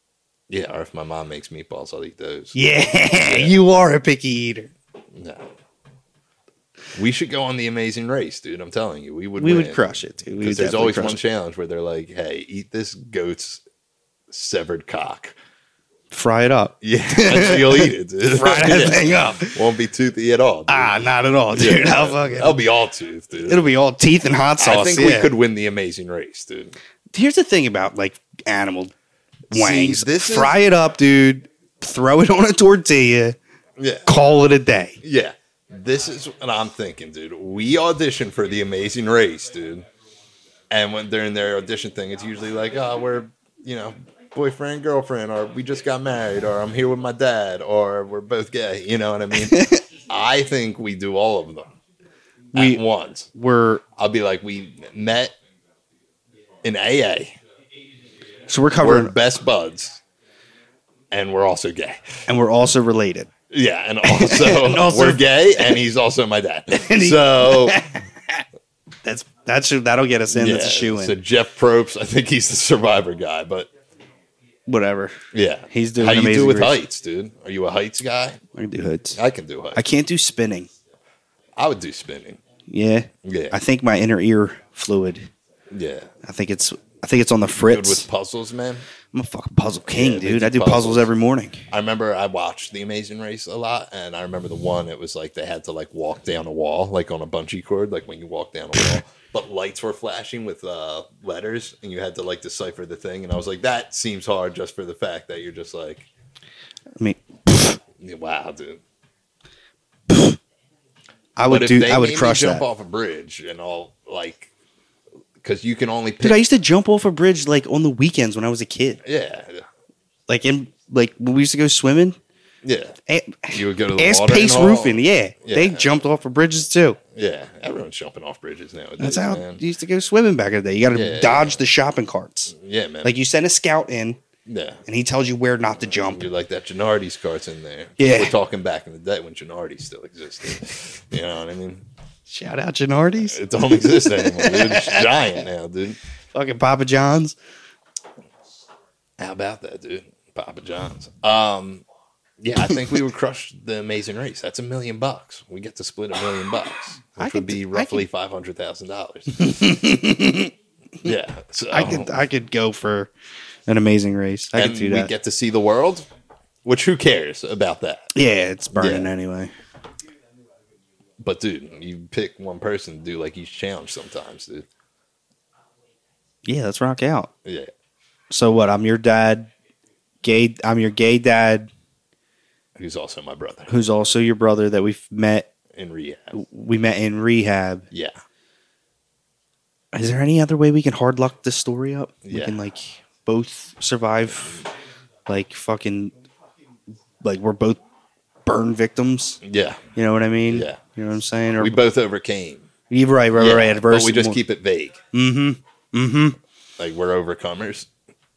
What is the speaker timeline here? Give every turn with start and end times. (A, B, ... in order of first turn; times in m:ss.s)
0:00.5-0:02.6 A
0:02.5-0:04.7 B
0:03.1-0:03.6 A
0:05.1-0:05.5 A
0:06.9-0:09.8 A
0:09.4-0:11.2 B
0:10.4-0:13.6 A
0:14.3-0:15.3 A
0:16.1-0:19.6 B
0:16.8-0:23.7 A
0:20.7-0:22.6 B
0:23.4-0:25.3 B
0:24.6-0:26.8 A
0:27.1-0:28.9 B
0:29.5-0:33.4 B
0:29.5-0:30.6 A
0:33.8-0:34.1 A
0:34.0-0:35.0 B
0:35.0-0:39.9 A
0:40.7-0:51.7 A
0:49.3-0:49.8 B
0:52.5-0:52.8 B
0:52.5-0:53.3 A
0:53.3-0:53.8 B
0:54.0-0:55.3 A
0:56.6-0:57.4 A
0:58.5-0:59.1 B
0:58.8-1:00.0 A
1:01.1-1:02.2 A
1:02.3-1:03.3 B
1:03.5-1:07.8 A
1:04.0-1:05.8 B
1:06.7-1:08.4 B
1:09.0-1:11.2 B
1:10.3-1:13.7 A
1:14.7-1:15.2 B
1:15.3-1:18.4 A
1:15.7-1:16.8 B
1:18.5-1:19.2 B
1:19.1-1:19.8 A
1:19.7-1:20.7 B
1:21.6-1:22.4 A
1:22.7-1:25.3 B
1:23.2-1:23.6 A
1:25.7-1:26.1 A
1:26.2-1:28.0 B
1:27.6-1:28.8 A
1:29.1-1:31.6 B
1:29.9-1:31.1 A
1:31.7-1:46.1 A
1:47.0-1:47.8 B
1:48.0-1:48.8 A
1:50.1-1:50.4 B
1:51.4-1:52.6 B
1:51.5-1:54.5 A
1:55.4-1:56.4 A
1:56.2-1:59.0 B
1:59.0-1:59.7 A
2:00.3-2:02.2 B
2:02.6-2:03.0 A
2:03.1-2:07.0 B
2:03.5-2:05.9 A
2:07.1-2:09.6 A
2:09.0-2:14.2 B
2:10.9-2:11.6 A
2:12.5-2:13.1 A
2:14.4-2:14.8 A
2:14.8-2:16.3 B
2:16.0-2:21.8 A
2:18.0-2:18.3 B
2:22.3-2:25.4 B
2:23.2-2:26.0 A
2:26.3-2:27.4 B
2:29.2-2:31.8 A
2:32.4-2:39.8 A
2:37.2-2:38.0 B
2:39.4-2:40.5 B
2:41.0-2:42.2 A
2:41.7-2:43.1 B
2:43.7-2:45.1 B
2:44.5-2:46.0 A
2:46.6-2:48.1 A
2:48.1-2:49.5 B
2:48.7-2:49.1 A
2:51.2-2:54.6 A
2:56.4-2:57.3 B
2:57.4-2:57.7 A
2:58.3-2:59.5 B
3:00.2-3:01.7 B
3:02.8-3:03.7 A
3:03.7-3:05.5 B
3:05.7-3:06.4 A
3:06.3-3:07.9 B
3:07.9-3:08.2 A
3:09.9-3:14.7 B
3:12.2-3:12.6 A
3:15.2-3:16.1 B
3:17.2-3:17.8 B
3:18.4-3:19.4 B
3:19.4-3:19.8 A
3:19.9-3:21.8 B
3:20.5-3:20.8 A
3:21.6-3:22.7 A
3:22.9-3:24.4 B
3:23.3-3:25.0 A
3:25.1-3:26.4 B
3:26.8-3:27.9 A